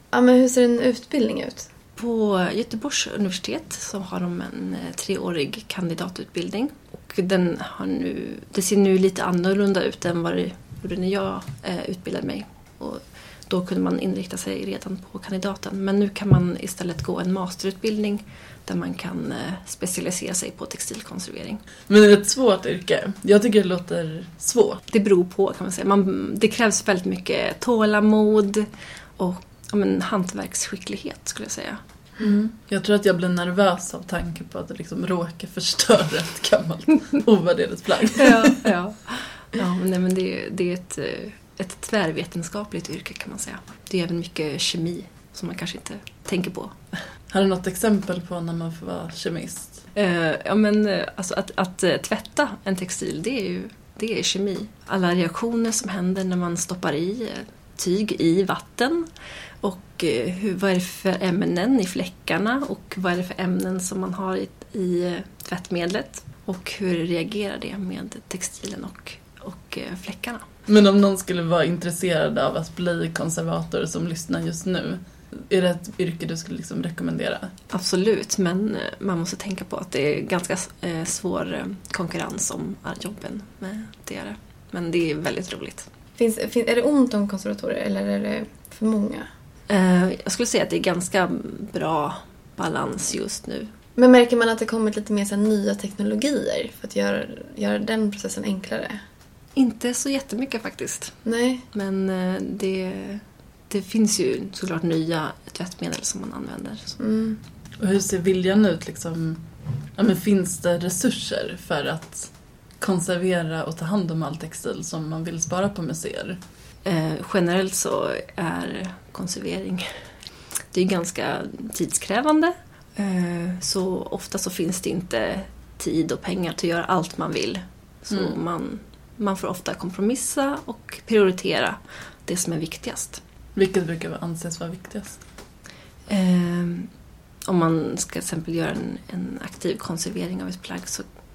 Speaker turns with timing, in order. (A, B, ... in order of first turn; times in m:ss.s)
0:00.1-0:01.7 A
0:02.0-0:21.6 B
0:21.9-0:24.8 C
0:24.9-0:31.8 B
0:32.2-0:38.7 C
0:38.2-0:47.1 B
0:47.3-0:49.8 C
0:50.0-0:59.1 B
0:59.6-1:10.5 B
1:10.7-1:17.5 C
1:17.7-1:25.9 B
1:26.2-1:29.3 A
1:29.7-1:33.7 B
1:34.0-1:39.0 A
1:39.6-1:47.0 B
1:41.2-1:41.6 A
1:47.0-1:47.4 A
1:47.8-1:49.4 C
1:50.0-1:56.4 C
1:56.8-2:00.1 B
2:00.7-2:13.2 B
2:08.1-2:08.4 C
2:13.6-2:15.2 C
2:16.1-2:16.9 B
2:17.5-2:21.1 B